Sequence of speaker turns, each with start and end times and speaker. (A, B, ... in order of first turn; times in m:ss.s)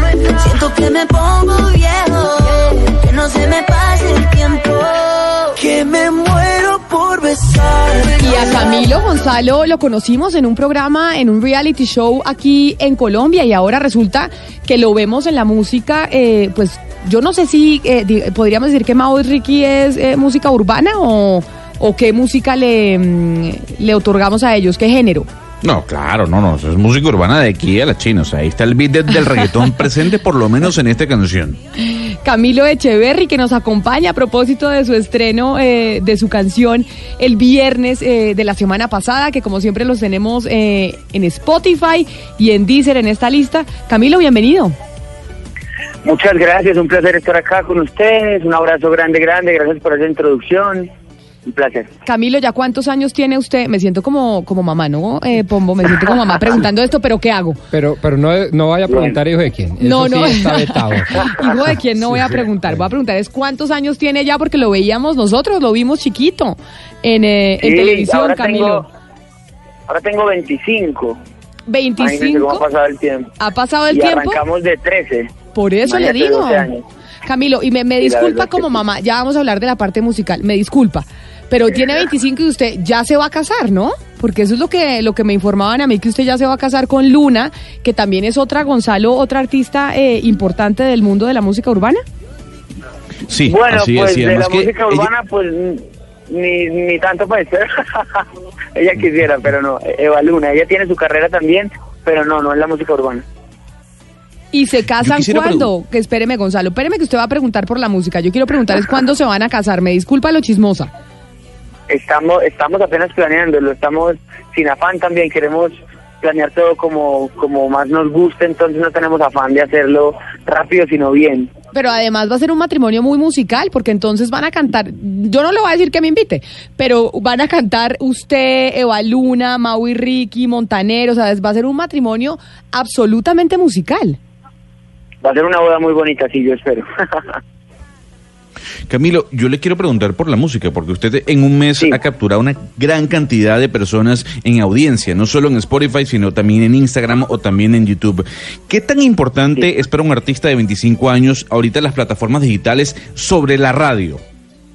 0:00.3-0:08.6 A
0:08.2-0:25.3 B
0:25.6-0:31.6 C
0:31.8-0:44.7 B
0:46.0-0:50.9 D
0:51.4-0:51.9 D
0:52.0-0:57.6 B
0:57.7-1:01.2 E
0:58.9-0:59.2 D
0:59.8-1:08.8 B
1:02.0-1:02.3 E
1:07.6-1:08.9 D
1:09.9-1:11.2 D
1:11.7-1:12.6 B
1:12.0-1:13.3 D
1:13.4-1:14.4 B
1:13.9-1:15.3 D
1:15.5-1:16.7 B
1:15.8-1:16.8 D
1:17.2-1:32.0 B
1:18.0-1:18.7 D
1:33.3-1:35.1 C
1:33.5-1:43.2 D
1:44.5-1:50.9 B
1:45.0-1:45.7 C
1:51.9-2:01.5 D
2:01.7-2:14.2 B
2:15.2-2:17.4 D
2:18.9-2:34.2 C